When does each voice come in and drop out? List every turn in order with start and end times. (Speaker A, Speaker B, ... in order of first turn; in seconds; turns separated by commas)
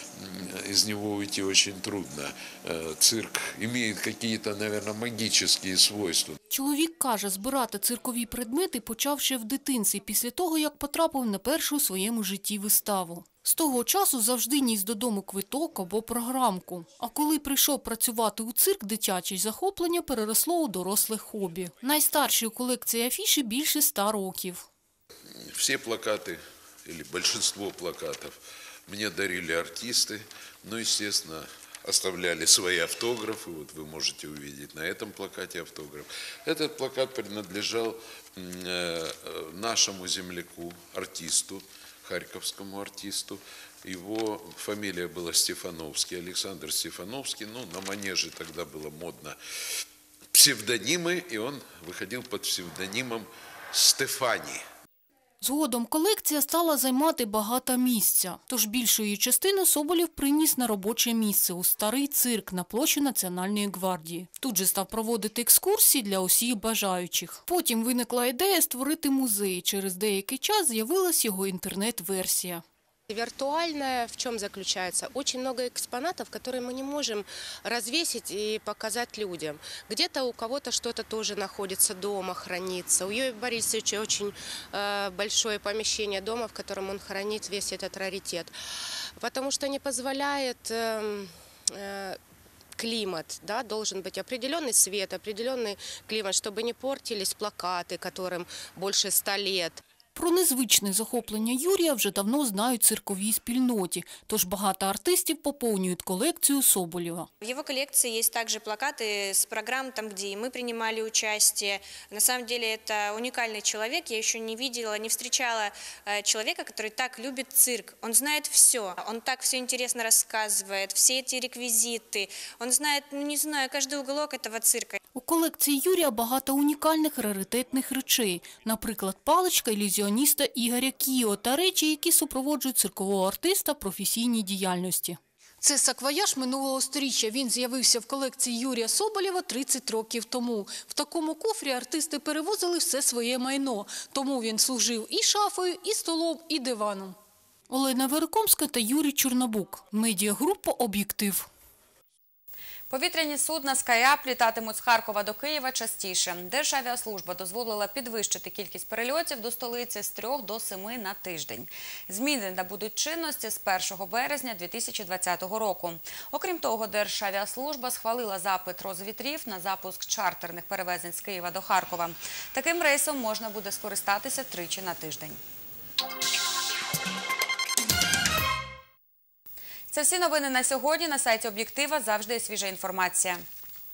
Speaker A: 0.1-6.4, Speaker B: 6.5-24.6, Speaker A: 25.4-49.4, Speaker A: 50.3-54.6, Speaker B: 55.4-72.6, Speaker C: 73.1-88.5, Speaker C: 89.2-92.2, Speaker C: 92.8-99.8, Speaker B: 100.1-107.3, Speaker D: 107.4-125.0, Speaker B: 125.1-147.2, Speaker B: 147.7-151.5, Speaker E: 152.9-175.4, Speaker E: 179.9-183.4